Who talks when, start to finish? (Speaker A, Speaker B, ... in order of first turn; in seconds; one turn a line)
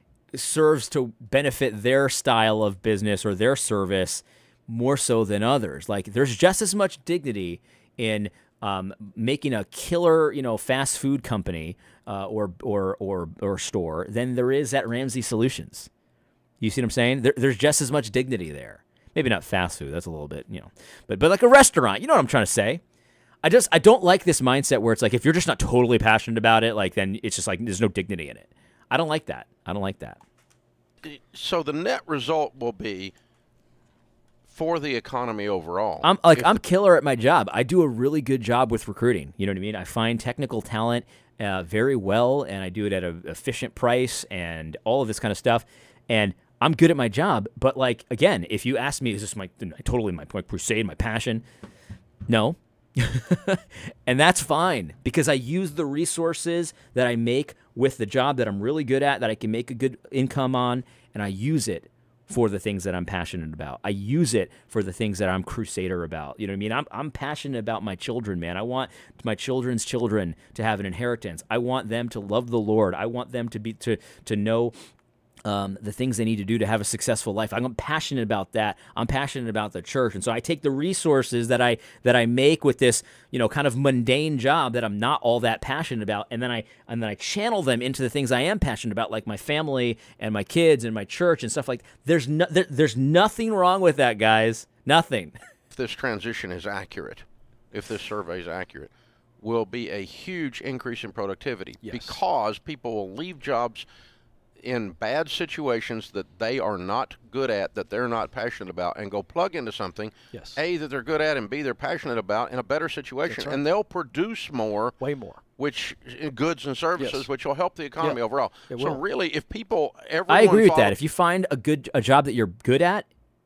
Speaker A: 0.3-15.9
Speaker A: 16.6-22.8
Speaker A: 23.4-30.2
Speaker B: 31.0-33.1
Speaker B: 34.5-36.5
Speaker A: 36.0-51.4
Speaker A: 52.3-74.7
Speaker A: 75.4-95.3
Speaker B: 95.7-103.8
Speaker C: 101.8-102.2
Speaker B: 104.6-115.0
Speaker C: 110.3-110.6
Speaker C: 113.3-113.6
Speaker C: 115.0-115.4
Speaker B: 115.6-121.0
Speaker C: 117.0-117.2
Speaker C: 118.0-119.0
Speaker A: 120.3-123.0